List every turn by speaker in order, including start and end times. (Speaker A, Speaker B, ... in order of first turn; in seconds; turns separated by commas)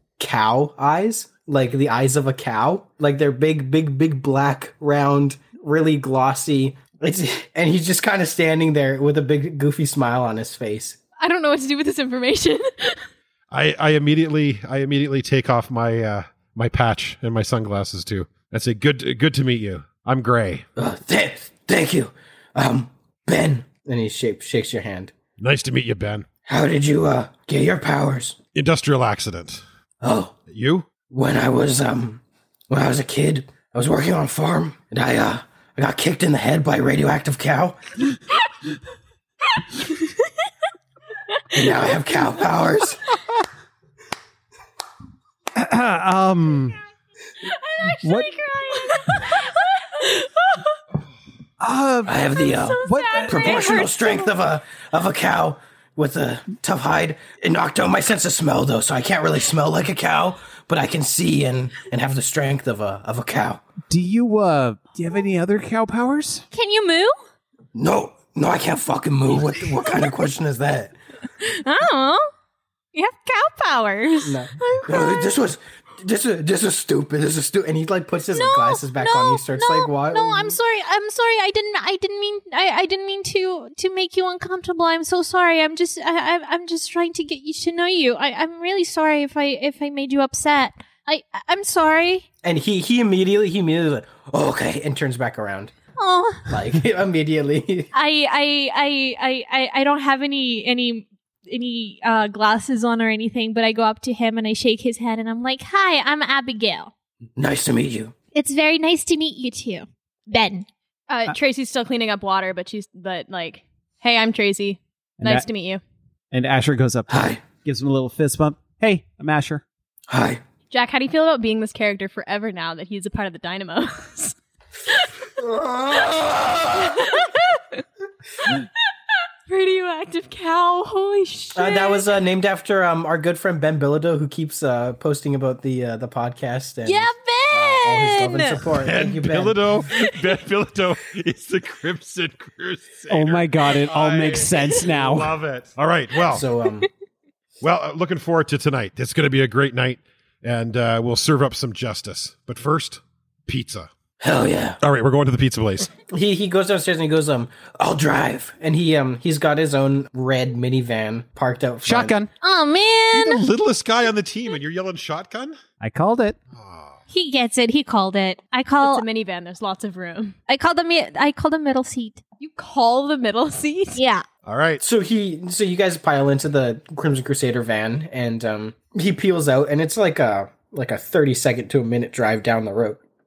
Speaker A: 0.2-11.0, Speaker B: 11.2-13.0, Speaker C: 13.5-20.6, Speaker A: 20.8-25.1, Speaker C: 25.4-26.3, Speaker A: 26.4-28.4, Speaker C: 28.5-29.6, Speaker A: 30.0-30.3, Speaker C: 30.5-30.9, Speaker A: 31.1-37.8, Speaker A: 41.5-43.0, Speaker D: 45.5-46.8, Speaker B: 47.4-50.6, Speaker D: 48.0-48.4, Speaker D: 51.6-53.6, Speaker A: 52.0-63.6, Speaker B: 52.8-54.0, Speaker E: 53.6-53.8, Speaker D: 63.9-66.4, Speaker E: 66.5-67.1, Speaker A: 67.7-70.9, Speaker E: 71.4-72.3, Speaker E: 72.9-75.3, Speaker A: 74.2-80.6, Speaker E: 78.3-92.2, Speaker A: 92.4-95.7, Speaker E: 96.0-96.5, Speaker A: 96.5-97.9, Speaker E: 97.9-106.9, Speaker A: 107.4-108.1, Speaker E: 108.3-110.7, Speaker B: 111.1-115.8, Speaker D: 115.2-115.5, Speaker D: 116.3-119.6, Speaker A: 117.1-117.4, Speaker A: 120.1-120.4, Speaker B: 120.7-124.3, Speaker A: 125.4-126.9, Speaker B: 126.7-127.8, Speaker B: 129.5-132.0, Speaker A: 131.5-139.8, Speaker E: 136.8-138.6, Speaker C: 138.7-146.4, Speaker D: 143.1-145.3, Speaker A: 146.3-146.9, Speaker C: 147.6-153.9, Speaker A: 154.2-154.8, Speaker C: 154.8-155.9, Speaker A: 156.1-162.2, Speaker D: 161.8-162.3, Speaker E: 162.4-163.5, Speaker C: 163.1-165.6, Speaker D: 165.8-166.4, Speaker C: 166.5-167.0, Speaker E: 167.1-169.0, Speaker B: 168.8-170.3, Speaker E: 170.5-172.2, Speaker B: 172.4-174.0, Speaker E: 173.9-174.2, Speaker C: 174.4-174.8, Speaker A: 174.8-183.0